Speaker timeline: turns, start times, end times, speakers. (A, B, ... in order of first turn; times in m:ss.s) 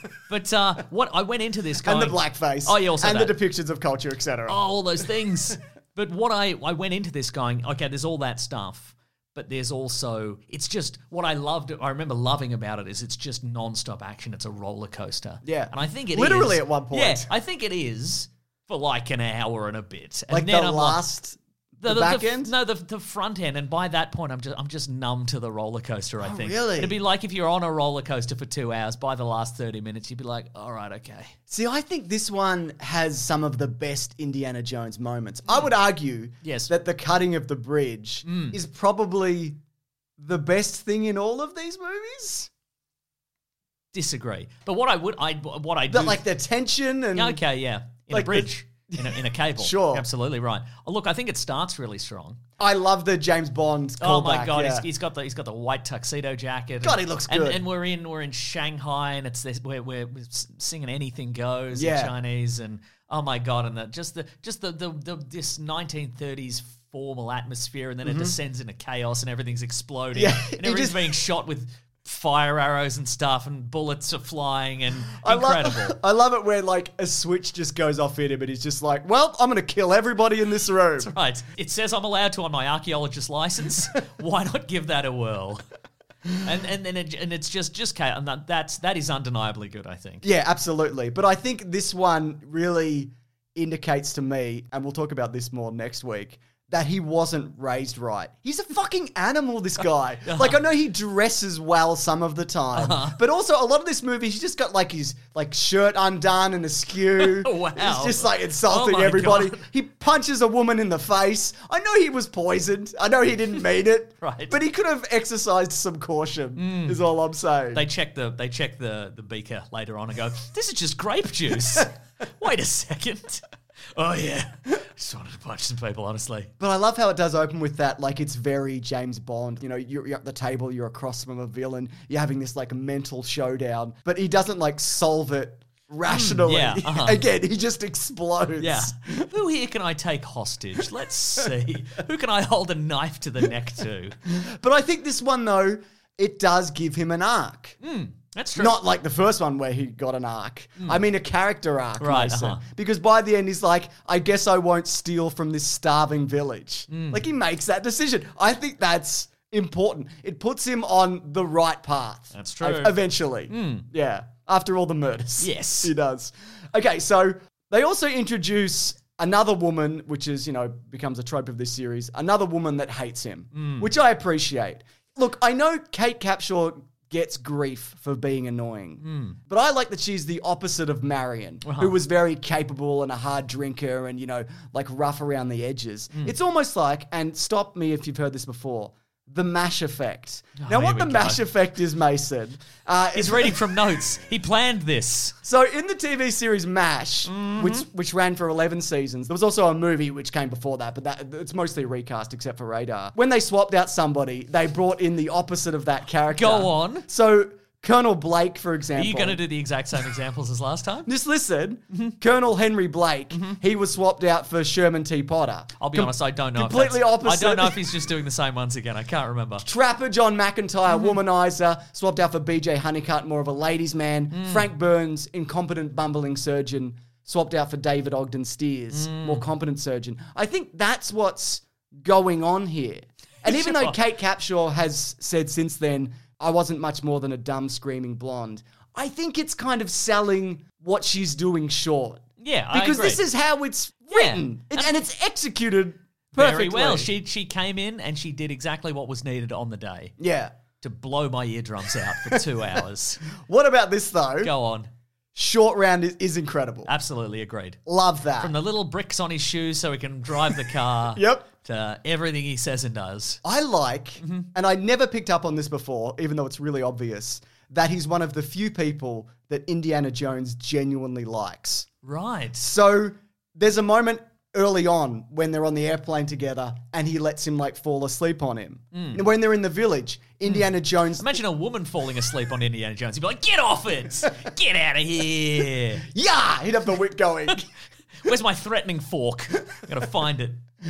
0:00.3-0:03.4 A
0:01.8-0:04.6 B
0:04.5-0:21.0 A
0:15.4-0:17.3 B
0:20.3-0:22.5 B
0:21.8-0:31.4 A
0:26.2-0:27.0 B
0:31.5-0:39.6 B
0:36.4-0:36.7 A
0:38.3-0:38.6 A
0:40.2-0:42.5 B
0:43.9-0:46.2 A
0:45.9-0:47.4 B
0:47.2-0:52.4 A
0:48.1-0:50.1 B
0:52.6-0:54.9 B
0:54.0-1:16.0 A
0:56.8-0:57.6 B
1:01.7-1:02.1 B
1:08.0-1:08.3 B
1:10.2-1:11.2 B
1:15.2-1:21.1 B
1:21.0-1:25.6 A
1:26.3-1:30.2 A
1:30.2-1:57.8 B
1:40.2-1:40.6 A
1:42.8-1:43.2 A
1:47.2-1:49.7 A
1:54.2-1:54.6 A
1:56.6-1:57.0 A
1:57.7-2:03.4 A
2:04.0-2:06.5 A
2:06.6-2:19.3 B
2:16.1-2:17.2 A
2:18.6-2:24.2 A
2:24.3-2:27.8 B
2:27.8-2:28.8 A
2:28.6-3:13.6 B
2:32.0-2:32.6 A
2:36.9-2:37.2 A
2:42.3-2:43.9 A
2:45.4-2:45.9 A
2:53.5-2:53.9 A
2:59.0-2:59.4 A
3:01.6-3:02.0 A
3:10.6-3:11.4 A
3:13.2-3:15.4 A
3:15.4-3:29.4 B
3:17.3-3:17.9 A
3:26.3-3:27.1 A
3:29.0-3:31.1 A
3:31.0-3:37.8 B
3:33.3-3:33.6 A
3:35.8-3:39.7 A
3:39.6-4:07.1 B
3:44.3-3:44.7 A
3:48.9-3:49.5 A
3:53.4-3:54.0 A
4:02.4-4:03.2 A
4:04.1-4:04.9 A
4:06.4-4:10.2 A
4:10.2-4:10.6 B
4:10.8-4:13.3 A
4:13.4-4:14.5 B
4:14.4-4:14.9 A
4:15.4-4:16.9 B
4:16.9-4:17.8 A
4:17.9-4:18.5 B
4:18.4-4:23.4 A
4:21.1-4:21.5 B
4:23.4-4:31.9 B
4:24.2-4:24.5 A
4:32.0-4:32.7 A
4:32.6-4:41.4 B
4:38.9-4:39.2 A
4:40.5-4:46.1 A
4:46.0-4:47.7 B
4:48.2-4:50.6 A